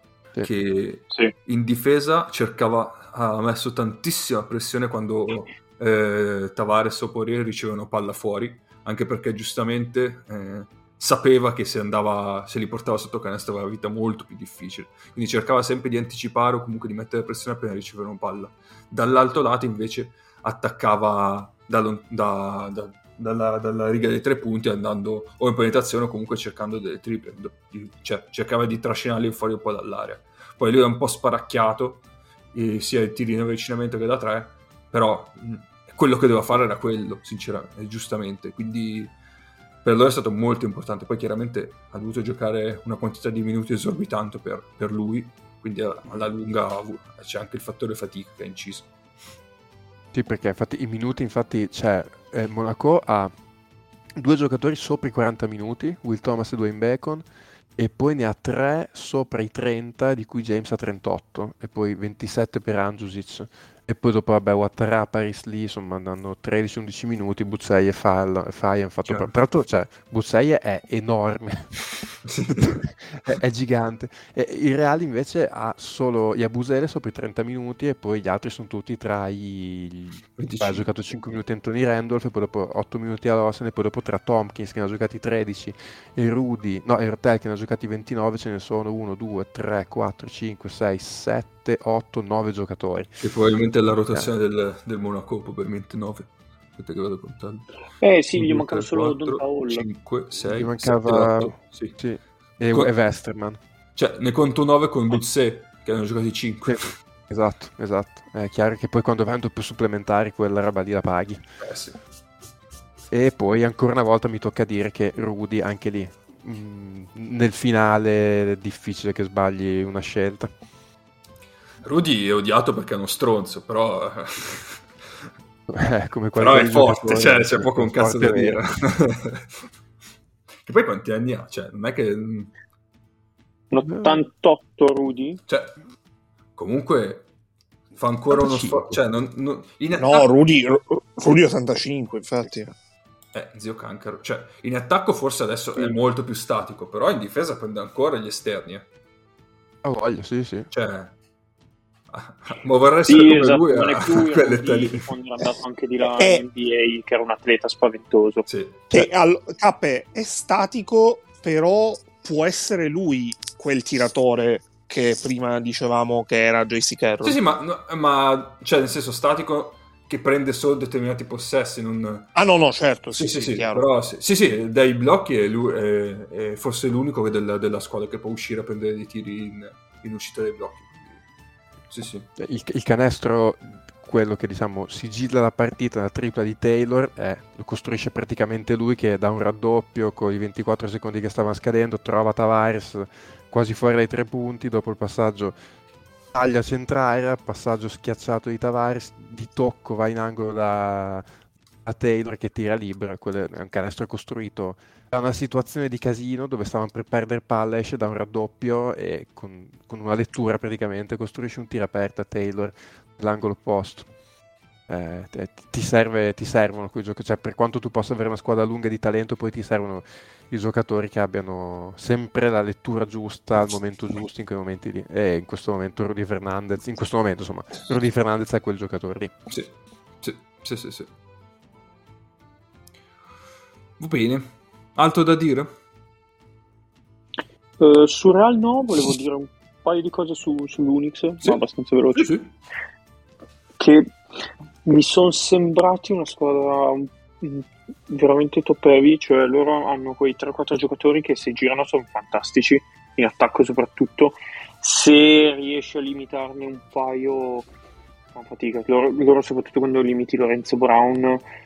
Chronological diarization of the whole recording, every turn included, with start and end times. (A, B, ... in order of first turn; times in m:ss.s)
0:00.4-0:39.2 A
0:39.8-0:48.9 A
0:50.1-0:53.3 B
0:54.2-0:57.2 B
0:57.8-1:11.8 B
1:12.3-1:12.8 A
1:12.6-1:33.1 B
1:20.4-1:20.8 A
1:33.2-1:37.7 A
1:38.0-1:39.9 C
1:38.3-1:42.0 A
1:40.4-1:43.6 B
1:44.0-1:46.9 A
1:46.7-1:51.4 B
1:51.6-1:52.0 A
1:53.1-2:00.5 B
2:01.8-2:04.8 A
2:05.7-2:08.6 B
2:06.4-2:09.5 A
2:10.6-2:12.5 A
2:13.7-2:15.4 C
2:13.9-2:14.2 B
2:15.5-2:15.8 A
2:16.6-2:17.3 A
2:17.9-2:20.3 A
2:18.3-2:19.0 B
2:19.9-2:22.7 D
2:23.3-2:28.9 A
2:29.8-2:30.7 B
2:30.7-2:31.1 A
2:32.1-2:35.1 A
2:33.1-2:38.5 C
2:36.0-2:36.4 D
2:38.5-2:39.0 A
2:38.9-2:47.4 D
2:47.2-2:52.3 A
2:52.4-2:53.9 D
2:53.2-3:01.2 A
3:01.9-3:02.3 A
3:02.4-3:15.5 B
3:16.3-3:21.3 B
3:21.8-3:34.1 B
3:34.9-3:49.3 B
3:49.5-3:51.1 A
3:54.0-3:55.7 A
3:57.8-4:02.3 C
4:02.2-4:02.5 A
4:03.8-4:04.1 C
4:04.8-4:17.7 C
4:18.4-4:21.4 C